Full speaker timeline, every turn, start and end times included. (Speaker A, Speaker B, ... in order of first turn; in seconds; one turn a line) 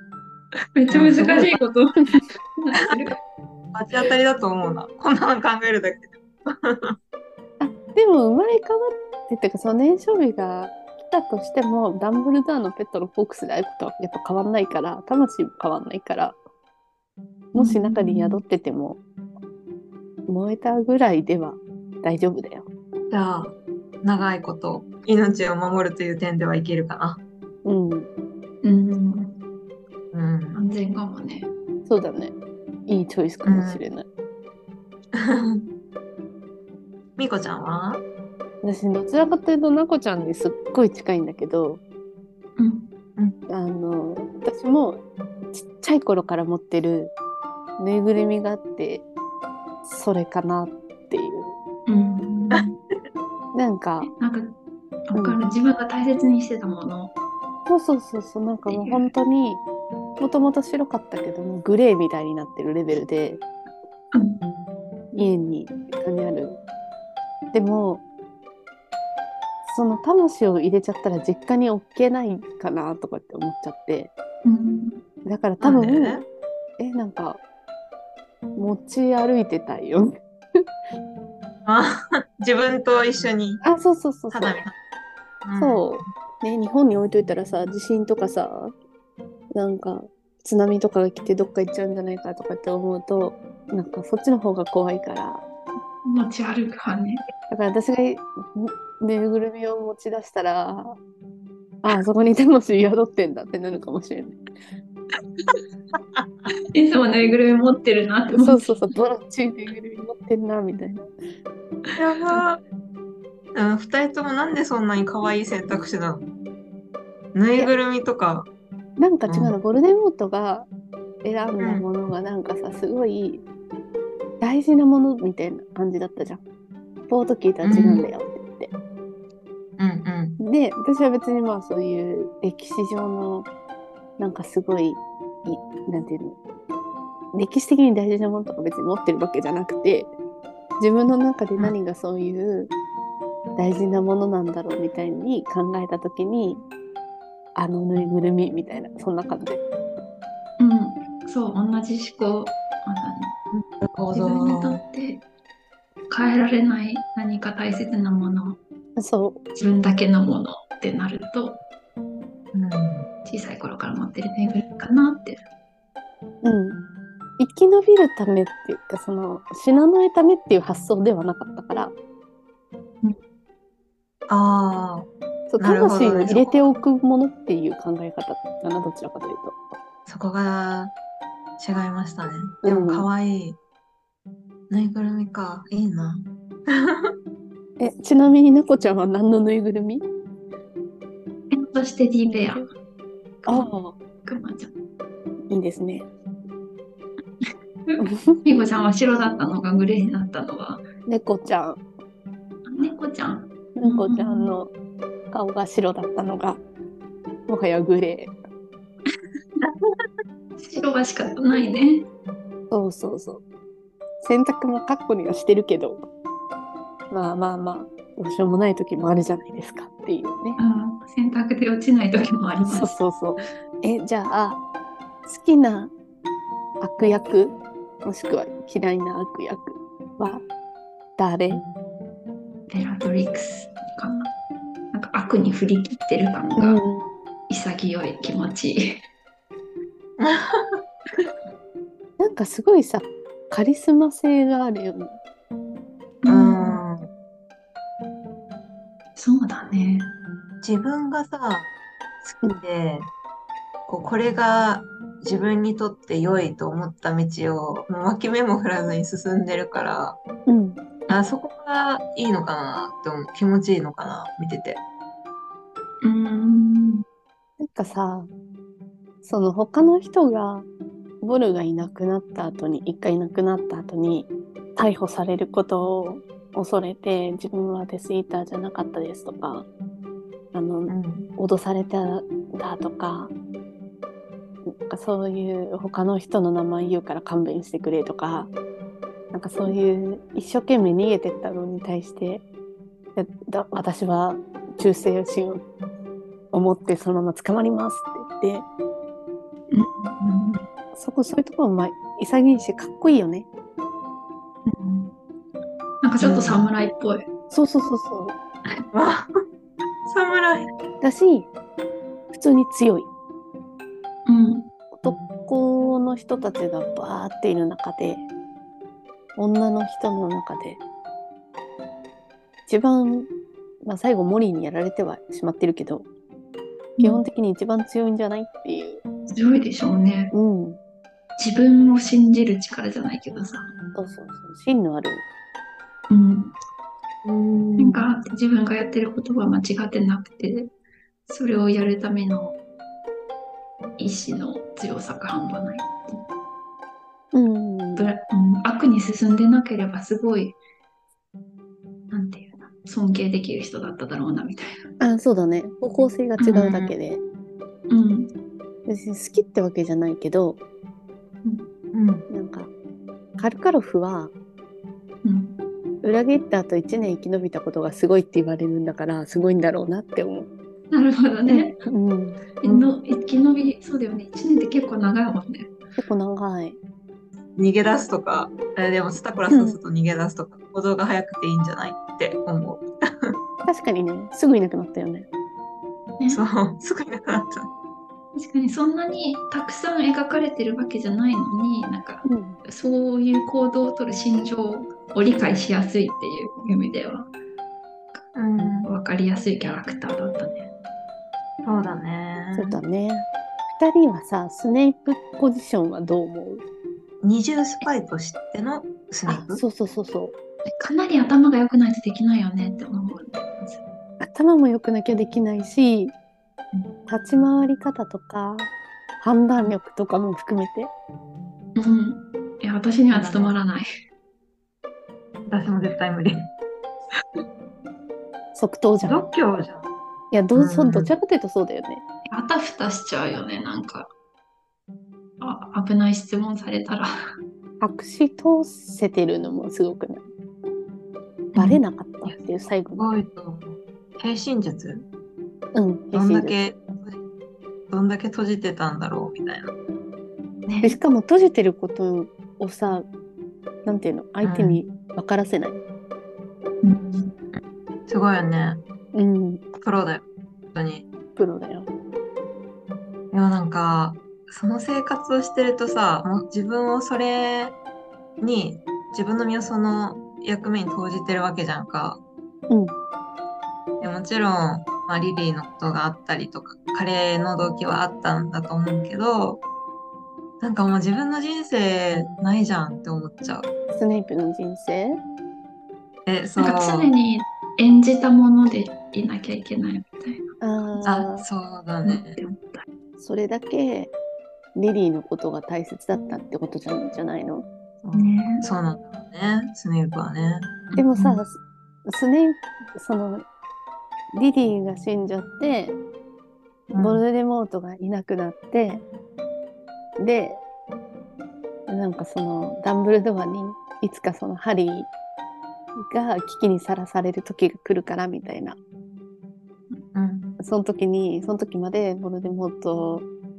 Speaker A: 0.7-3.2
Speaker B: 0.9-1.6
Speaker B: 3.7-7.0
Speaker C: 7.6-16.4
Speaker C: 17.5-19.0
Speaker A: 17.6-18.4
Speaker C: 20.3-22.7
Speaker B: 23.1-27.2
Speaker C: 27.6-28.1
Speaker A: 28.6-29.4
Speaker B: 30.1-30.6
Speaker A: 30.5-31.5
Speaker C: 31.9-32.3
Speaker C: 32.9-34.1
Speaker B: 33.4-33.8
Speaker B: 35.1-35.7
Speaker B: 37.2-38.0
Speaker C: 38.6-41.8
Speaker A: 42.6-42.9
Speaker C: 43.5-47.1
Speaker C: 47.8-49.1
Speaker C: 49.8-51.6
Speaker A: 51.9-52.8
Speaker C: 53.5-54.1
Speaker A: 54.0-54.5
Speaker A: 55.1-57.1
Speaker C: 55.1-55.5
Speaker C: 57.7-59.6
Speaker A: 58.7-59.1
Speaker C: 60.2-63.4
Speaker A: 64.1-64.4
Speaker C: 65.1-66.6
Speaker C: 67.5-68.0
Speaker C: 69.7-74.1
Speaker A: 74.4-75.0
Speaker C: 75.2-76.2
Speaker B: 75.6-76.2
Speaker C: 76.8-77.4
Speaker C: 78.5-80.6
Speaker B: 81.7-83.6
Speaker C: 83.6-84.6
Speaker B: 84.3-84.7
Speaker B: 85.4-86.1
Speaker C: 85.6-88.7
Speaker C: 89.5-95.4
Speaker A: 96.0-97.2
Speaker C: 97.5-101.0
Speaker C: 101.8-104.4
Speaker A: 106.7-108.8
Speaker C: 108.3-111.1
Speaker A: 111.9-112.4
Speaker B: 112.0-112.6
Speaker B: 113.5-116.3
Speaker B: 117.3-118.5
Speaker C: 119.0-120.7
Speaker B: 119.3-119.5
Speaker C: 121.2-123.4
Speaker B: 121.6-121.8
Speaker C: 124.4-126.4
Speaker C: 127.1-128.7
Speaker B: 127.6-128.1
Speaker B: 129.8-130.4
Speaker C: 130.4-133.5
Speaker C: 134.2-136.4
Speaker C: 137.3-140.1
Speaker C: 140.8-142.7
Speaker C: 143.6-146.6
Speaker C: 147.5-149.6
Speaker A: 150.6-153.3
Speaker B: 153.5-154.8
Speaker A: 154.1-155.2
Speaker A: 156.1-158.6
Speaker C: 159.0-159.4
Speaker A: 159.5-161.6
Speaker B: 162.5-163.1
Speaker A: 163.2-165.4
Speaker C: 166.4-166.8
Speaker C: 167.4-171.9
Speaker B: 174.3-176.7
Speaker C: 175.5-179.6
Speaker B: 180.1-180.9
Speaker B: 181.6-183.6
Speaker C: 182.6-183.1
Speaker B: 184.7-187.1
Speaker C: 187.8-190.0
Speaker A: 191.5-192.7
Speaker C: 192.2-192.7
Speaker A: 193.4-193.7
Speaker C: 193.4-193.9
Speaker A: 194.2-194.7
Speaker C: 195.5-196.1
Speaker A: 197.9-200.8
Speaker C: 198.0-198.4
Speaker C: 201.1-201.8
Speaker A: 202.7-204.6
Speaker C: 203.8-204.7
Speaker C: 205.3-206.6
Speaker C: 207.5-208.3
Speaker A: 210.6-212.1
Speaker C: 212.7-213.4
Speaker C: 214.2-216.0
Speaker C: 217.1-220.6
Speaker A: 220.6-222.9
Speaker C: 222.7-224.6
Speaker C: 225.3-225.9
Speaker C: 226.8-230.4
Speaker C: 231.2-231.6
Speaker A: 232.7-234.3
Speaker A: 234.9-236.8
Speaker C: 236.6-237.1
Speaker A: 237.5-239.0
Speaker B: 240.2-240.8
Speaker C: 242.2-245.2
Speaker A: 246.2-246.8
Speaker B: 246.3-247.1
Speaker A: 249.2-250.1
Speaker B: 250.6-251.7
Speaker B: 252.2-253.1
Speaker B: 253.9-260.2
Speaker C: 260.5-260.8
Speaker B: 261.1-264.8
Speaker A: 266.0-267.0
Speaker C: 267.6-268.3
Speaker C: 269.2-270.7
Speaker C: 271.2-279.7
Speaker C: 280.5-283.3
Speaker B: 280.9-281.3
Speaker C: 284.7-288.5
Speaker C: 289.3-292.4
Speaker C: 293.1-295.6
Speaker C: 296.5-298.6
Speaker A: 299.7-300.7
Speaker C: 300.9-303.5
Speaker A: 304.6-305.1
Speaker A: 306.0-307.2
Speaker B: 306.2-306.7
Speaker C: 307.5-308.4
Speaker B: 308.9-309.3
Speaker B: 310.1-310.7
Speaker C: 311.0-311.5
Speaker C: 312.3-313.1
Speaker A: 314.2-314.7
Speaker C: 314.9-318.2
Speaker C: 319.4-320.8
Speaker C: 322.7-323.3
Speaker C: 323.8-326.1
Speaker A: 327.0-327.2
Speaker C: 327.0-329.0
Speaker A: 329.3-330.3
Speaker C: 330.3-330.8
Speaker A: 331.4-333.7
Speaker C: 333.9-335.2
Speaker A: 336.1-336.6
Speaker B: 337.2-338.1
Speaker A: 337.8-340.7
Speaker A: 341.3-342.6
Speaker A: 344.0-346.2
Speaker C: 347.3-348.1
Speaker A: 347.9-350.6
Speaker A: 352.1-354.8
Speaker C: 355.0-357.2
Speaker A: 356.4-356.7
Speaker B: 356.5-356.9
Speaker A: 357.9-358.3
Speaker C: 358.9-360.6
Speaker A: 361.4-361.7
Speaker B: 361.9-362.2
Speaker C: 362.3-362.7
Speaker C: 363.4-364.3
Speaker A: 365.2-365.6
Speaker C: 366.0-370.5
Speaker A: 370.9-371.8
Speaker C: 371.5-372.9
Speaker A: 372.6-375.7
Speaker C: 376.0-376.8
Speaker B: 377.6-383.4
Speaker C: 379.5-379.8
Speaker C: 383.6-385.3
Speaker B: 386.3-387.7
Speaker A: 388.3-397.3
Speaker C: 392.2-392.6
Speaker A: 398.1-400.7
Speaker B: 398.3-398.9
Speaker B: 401.6-402.8
Speaker C: 402.5-406.6
Speaker B: 407.2-409.6
Speaker C: 409.3-410.4
Speaker A: 410.7-413.8
Speaker C: 414.2-416.1
Speaker C: 417.1-420.9
Speaker A: 421.8-423.9
Speaker B: 423.1-423.6
Speaker B: 425.5-426.5
Speaker C: 428.5-429.2
Speaker B: 429.1-429.9
Speaker C: 430.3-432.0
Speaker B: 430.5-431.1
Speaker A: 432.3-434.1
Speaker A: 435.4-437.1
Speaker C: 437.8-440.2
Speaker A: 441.5-441.8
Speaker C: 441.6-443.1
Speaker B: 443.0-445.1
Speaker C: 445.7-446.6
Speaker B: 446.1-447.2
Speaker B: 447.9-449.7
Speaker A: 450.7-451.0
Speaker C: 450.8-453.1
Speaker C: 453.8-455.8
Speaker B: 454.4-454.8
Speaker A: 456.8-457.3
Speaker B: 458.1-458.8
Speaker C: 459.1-459.7
Speaker B: 459.8-461.1
Speaker C: 461.4-461.9
Speaker B: 463.3-467.8
Speaker B: 468.4-472.2
Speaker C: 472.7-472.9
Speaker B: 474.0-479.6
Speaker B: 480.6-483.7
Speaker C: 483.9-485.2
Speaker B: 486.2-487.1
Speaker A: 486.6-490.5
Speaker C: 490.6-491.4
Speaker B: 491.0-492.4
Speaker A: 492.0-492.8
Speaker C: 493.2-494.1
Speaker C: 494.7-497.7
Speaker B: 498.0-500.8
Speaker A: 498.1-498.6
Speaker A: 500.9-501.4
Speaker C: 501.0-503.4
Speaker C: 504.3-506.0
Speaker B: 506.9-507.2
Speaker C: 507.0-509.0
Speaker C: 510.2-510.6
Speaker C: 511.9-515.1
Speaker C: 516.0-518.8
Speaker B: 520.1-520.5
Speaker C: 520.6-523.3